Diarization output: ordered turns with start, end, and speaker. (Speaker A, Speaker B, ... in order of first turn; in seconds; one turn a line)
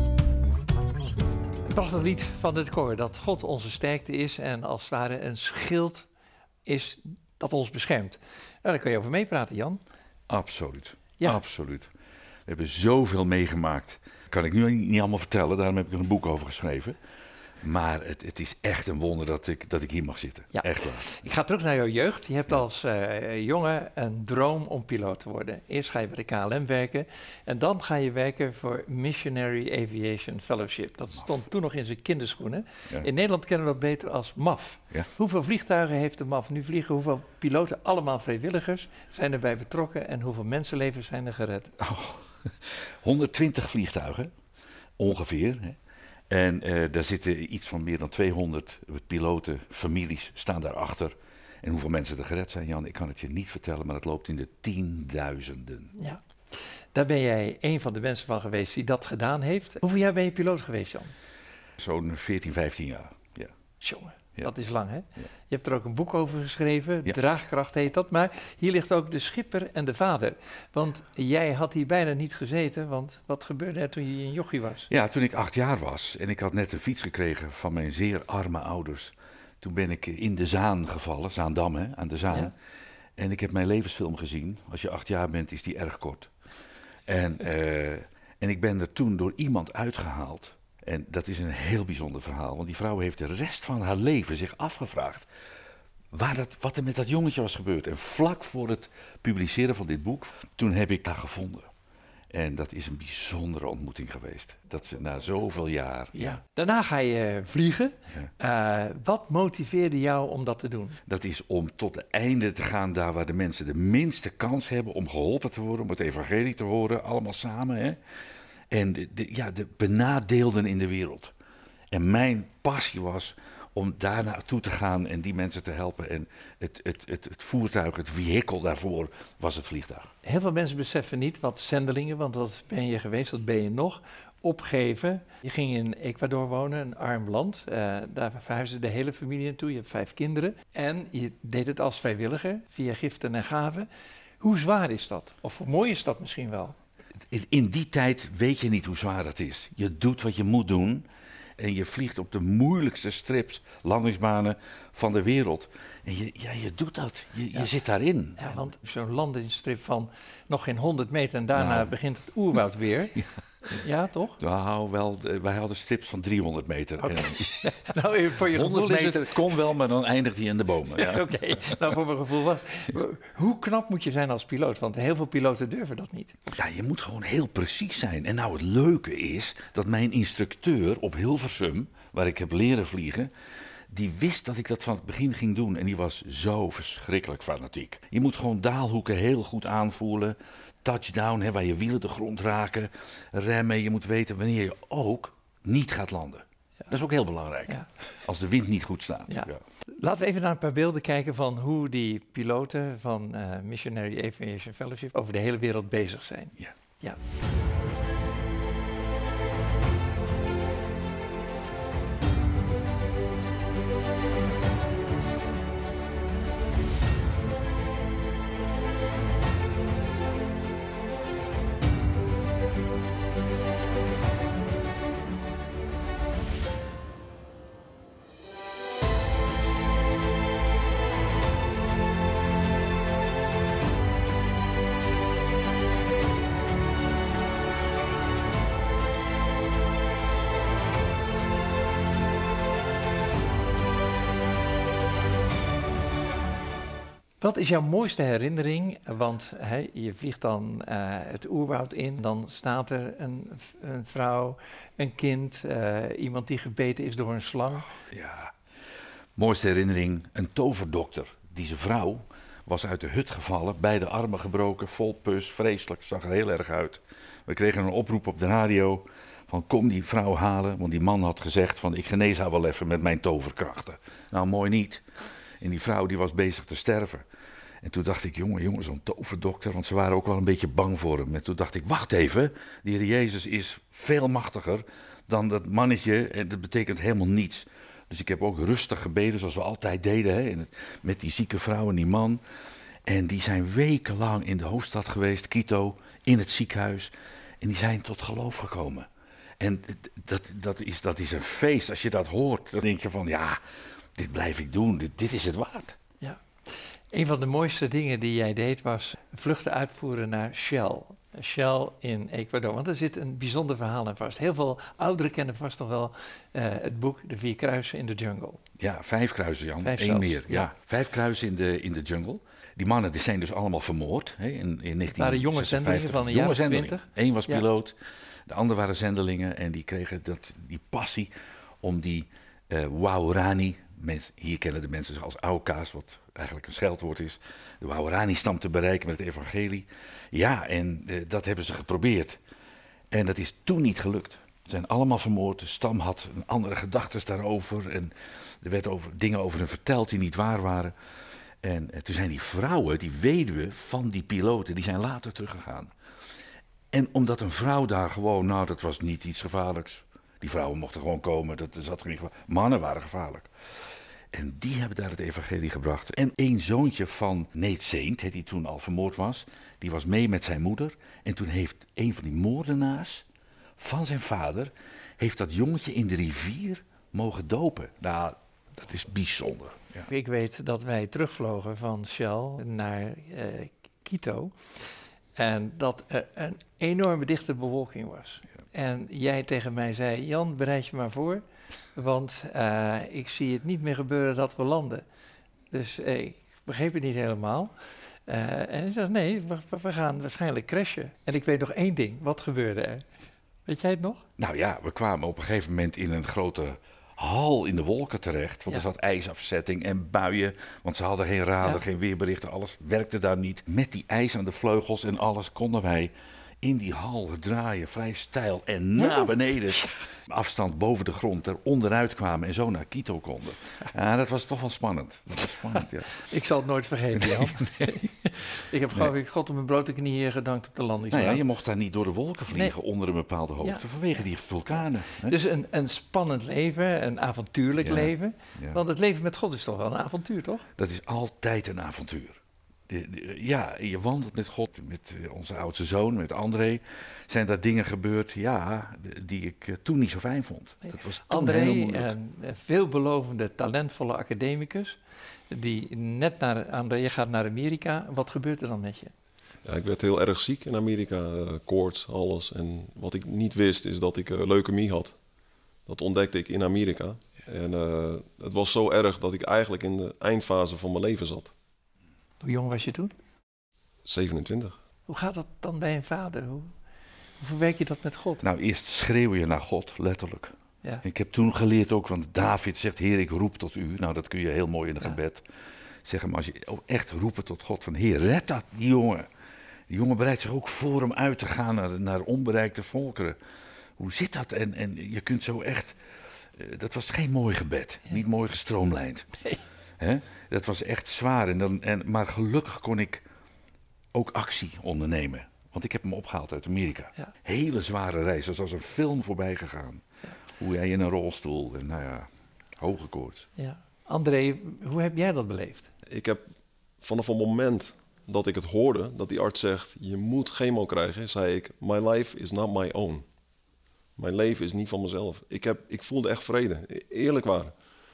Speaker A: 1.7-6.1
Speaker A: 6.7-9.8
Speaker B: 10.3-11.9
Speaker B: 12.5-17.0
Speaker B: 17.6-21.2
Speaker A: 20.5-41.7
Speaker B: 41.8-44.3
Speaker B: 45.0-45.8
Speaker B: 46.3-55.9
Speaker A: 56.9-61.1
Speaker B: 61.8-63.5
Speaker A: 63.8-74.9
Speaker B: 74.9-82.5
Speaker B: 83.2-86.3
Speaker B: 87.1-95.3
Speaker B: 96.1-101.7
Speaker B: 102.3-106.4
Speaker A: 106.2-111.0
Speaker B: 111.1-118.0
Speaker B: 118.7-121.3
Speaker B: 121.9-130.1
Speaker A: 130.2-143.9
Speaker A: 144.4-146.8
Speaker B: 147.3-151.1
Speaker B: 151.6-158.5
Speaker A: 158.4-164.4
Speaker B: 161.6-161.9
Speaker B: 164.4-167.7
Speaker A: 167.0-169.4
Speaker B: 168.5-171.8
Speaker A: 171.0-176.3
Speaker B: 176.5-183.3
Speaker B: 183.9-199.6
Speaker A: 199.3-207.2
Speaker A: 247.4-257.9
Speaker B: 258.1-258.5
Speaker B: 259.4-275.1
Speaker B: 275.6-277.3
Speaker B: 277.8-292.4
Speaker B: 293.1-299.1
Speaker B: 299.6-303.6
Speaker B: 304.2-306.0
Speaker A: 307.1-318.6
Speaker B: 318.8-327.9
Speaker A: 319.8-320.6
Speaker A: 325.1-327.6
Speaker B: 328.5-342.4
Speaker B: 343.1-350.9
Speaker B: 351.6-355.9
Speaker B: 356.9-363.5
Speaker B: 364.3-373.2
Speaker B: 373.8-380.1
Speaker A: 380.1-384.6
Speaker A: 385.4-391.4
Speaker A: 391.9-395.1
Speaker A: 395.7-397.7
Speaker A: 398.3-403.1
Speaker A: 403.7-404.2
Speaker B: 404.4-426.2
Speaker A: 419.0-419.8
Speaker A: 426.2-431.4
Speaker B: 427.2-427.9
Speaker B: 431.1-435.4
Speaker A: 435.2-440.7
Speaker B: 437.8-438.8
Speaker B: 440.8-452.1
Speaker A: 450.9-455.0
Speaker A: 455.5-459.1
Speaker C: 459.6-465.2
Speaker C: 465.9-471.5
Speaker A: 472.4-473.1
Speaker C: 474.1-474.8
Speaker A: 475.1-476.7
Speaker A: 477.4-478.4
Speaker B: 478.4-485.5
Speaker B: 486.0-489.3
Speaker B: 489.9-493.4
Speaker B: 494.0-496.0
Speaker B: 496.6-499.4
Speaker B: 500.0-503.2
Speaker B: 504.1-510.0
Speaker B: 510.6-512.3
Speaker B: 512.8-513.5
Speaker A: 513.6-515.9
Speaker C: 516.1-516.4
Speaker C: 517.0-523.2
Speaker C: 524.2-527.7